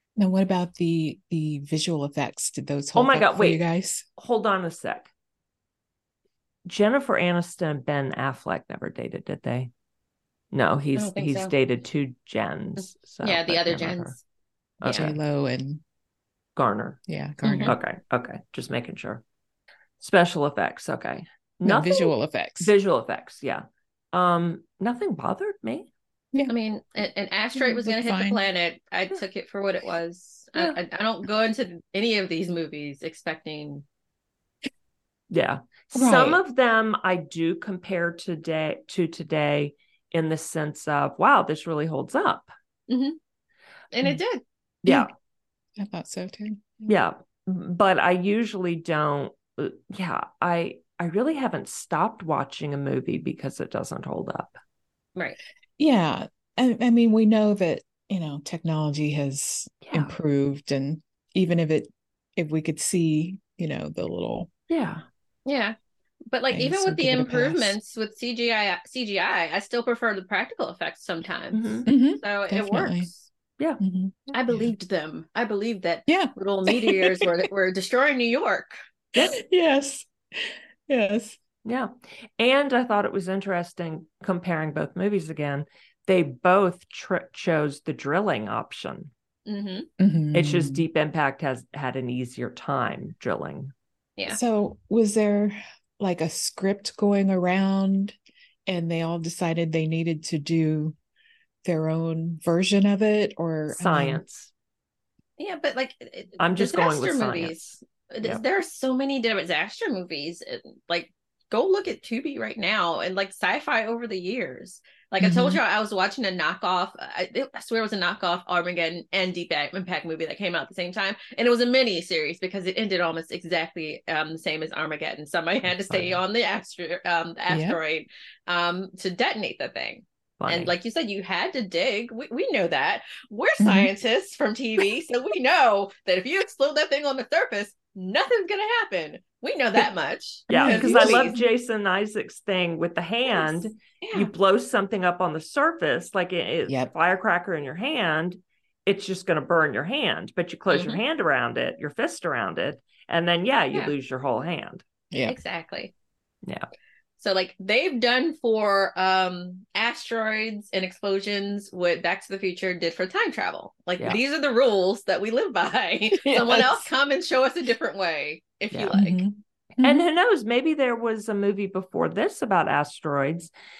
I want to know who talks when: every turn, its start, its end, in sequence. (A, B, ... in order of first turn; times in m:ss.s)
0:00.2-0:04.0 A
0:02.9-0:03.6 B
0:04.2-0:05.1 B
0:06.6-0:09.7 B
0:10.5-0:14.2 B
0:11.0-0:11.5 C
0:12.8-0:14.2 C
0:14.8-0:15.2 B
0:14.8-0:15.1 C
0:14.9-0:15.8 A
0:16.6-0:17.0 B
0:17.1-0:17.8 A
0:17.4-0:17.7 C
0:17.6-0:19.2 B
0:20.0-0:25.9 B
0:21.6-0:22.7 A
0:26.5-0:33.8 C
0:27.6-0:28.4 A
0:35.3-0:42.5 B
0:35.9-0:36.4 A
0:42.9-0:43.2 C
0:43.9-0:44.4 C
0:44.8-0:45.1 B
0:45.8-0:46.9 A
0:46.9-0:54.6 B
0:55.8-1:04.5 A
0:59.8-1:00.2 B
1:04.7-1:05.0 B
1:05.4-1:05.8 C
1:06.3-1:13.2 C
1:06.5-1:07.8 A
1:11.5-1:11.9 B
1:11.9-1:13.1 A
1:13.8-1:14.7 A
1:14.3-1:18.8 C
1:16.1-1:17.3 A
1:19.2-1:21.4 A
1:21.6-1:29.1 B
1:29.5-1:29.9 C
1:30.0-1:30.8 A
1:30.3-1:33.7 B
1:34.3-1:41.0 A
1:41.6-1:44.2 A
1:43.7-1:44.5 B
1:45.4-2:21.4 C
1:46.4-1:48.4 B
1:55.2-1:55.6 A
2:05.9-2:06.2 B
2:07.5-2:07.8 A
2:10.4-2:10.7 B
2:13.6-2:13.9 A
2:20.5-2:34.8 B
2:20.5-2:21.4 A
2:23.3-2:24.3 C
2:30.7-2:31.0 C
2:35.1-2:35.4 A
2:35.2-2:35.9 C
2:37.2-2:49.2 C
2:46.2-2:46.9 A
2:48.9-2:50.0 A
2:49.8-2:53.5 B